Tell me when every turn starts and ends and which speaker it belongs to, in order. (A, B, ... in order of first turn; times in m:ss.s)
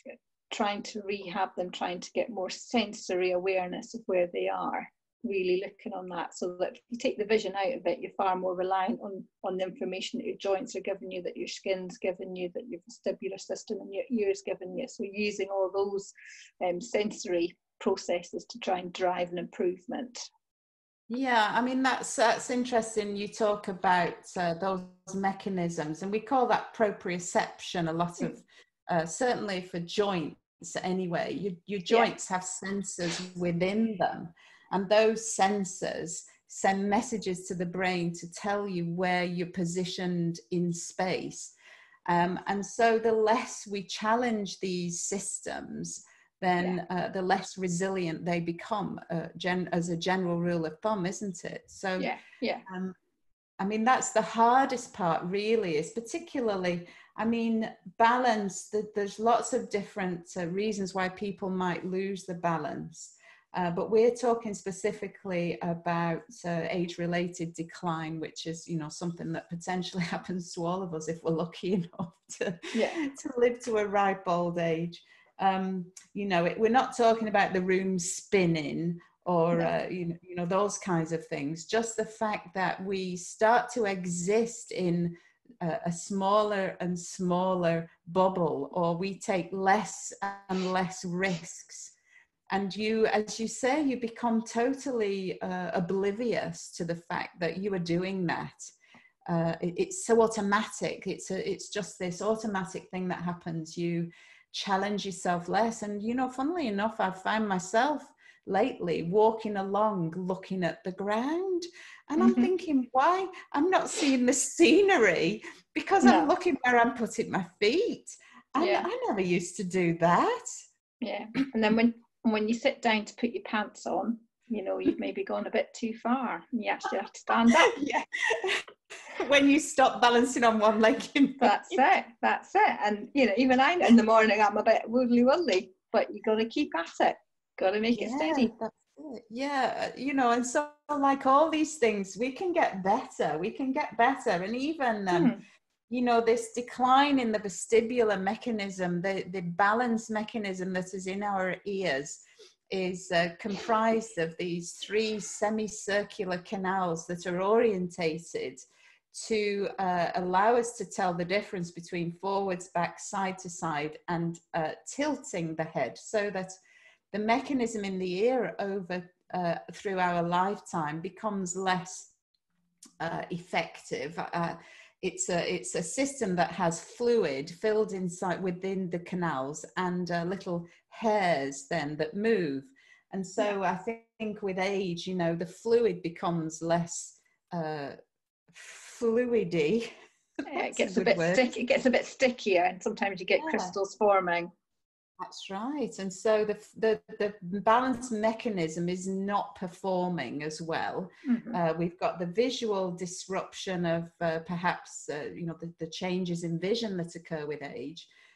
0:00.5-0:20.3 A
0:21.1-0:41.5 B
0:42.1-0:52.1 B
0:52.0-0:52.6 A
0:52.6-0:53.0 B
0:53.6-1:31.9 B
1:12.7-1:13.0 A
1:32.5-1:38.7 B
1:39.3-2:00.5 B
1:52.2-1:52.5 A
1:56.0-1:56.3 A
1:58.6-1:58.9 A
2:01.0-2:07.7 A
2:07.7-2:11.8 B
2:11.4-2:18.5 A
2:17.9-2:25.3 B
2:25.1-2:25.4 A
2:25.9-2:46.6 B
2:47.1-2:52.1 B
2:53.0-3:08.0 B
3:08.5-3:09.9 B
3:10.5-3:14.5 A
3:10.5-3:11.5 B
3:13.4-3:13.7 B
3:15.2-3:28.1 B
3:21.2-3:21.6 A